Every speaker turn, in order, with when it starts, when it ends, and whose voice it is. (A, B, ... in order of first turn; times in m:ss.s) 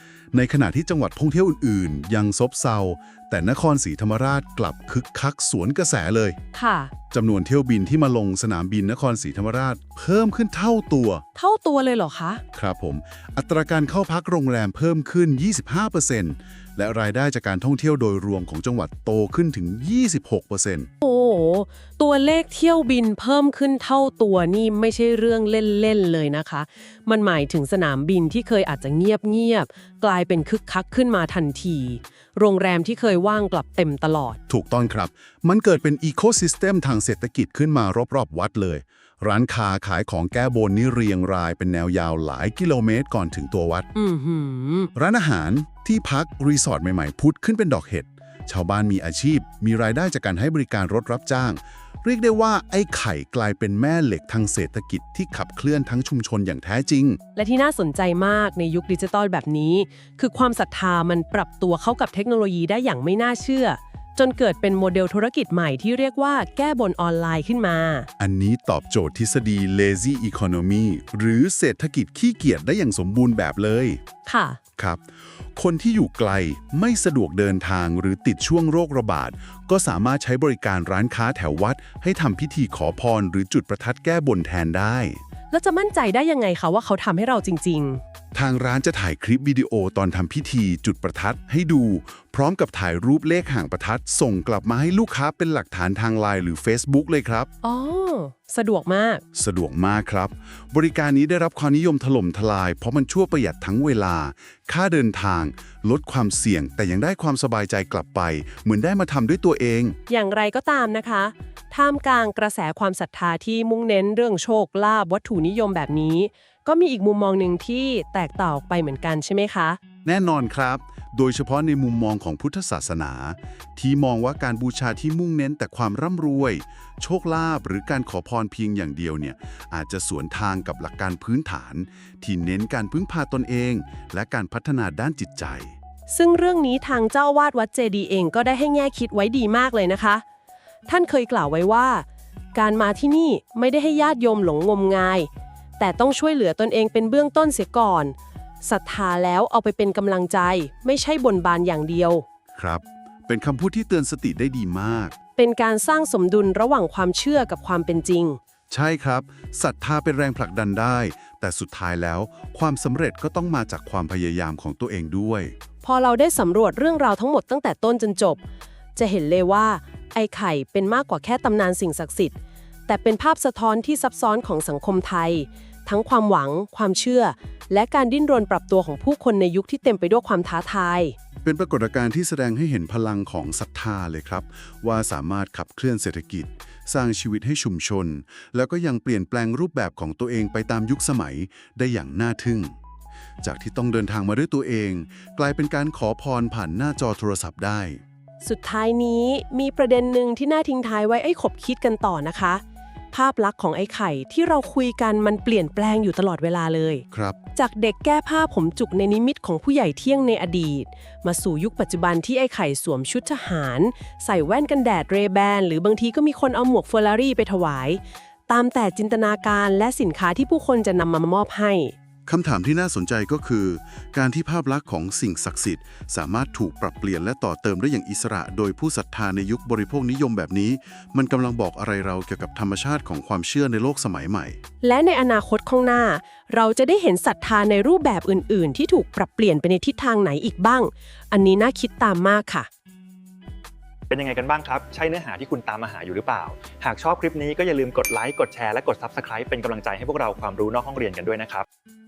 0:00.3-0:06.4 A
0:06.5-0:06.9 B
0:07.1-0:11.2 A
0:11.4-0:12.4 B
0:12.5-0:20.9 A
0:21.0-0:34.4 B
0:34.5-0:43.9 A
0:44.0-0:44.9 B
0:45.0-0:57.2 A
0:57.4-1:08.1 B
1:08.2-1:14.0 A
1:14.2-1:14.6 B
1:14.8-1:25.2 A
1:25.5-1:28.0 B
1:28.3-1:37.5 A
1:37.6-1:39.2 B
1:39.3-1:50.0 A
1:50.1-1:59.8 B
2:00.0-2:15.8 A
2:16.1-2:20.2 B
2:20.9-2:32.2 B
2:32.6-2:35.2 A
2:35.4-2:38.4 B
2:38.7-2:45.5 A
2:45.8-2:48.4 B
2:49.0-2:52.4 B
2:52.9-3:01.2 B
3:01.4-3:12.7 A
3:13.4-3:18.0 A
3:18.4-3:41.9 B
3:27.1-3:27.4 A
3:42.3-3:54.6 A
3:54.8-4:02.7 B
4:04.1-4:11.7 C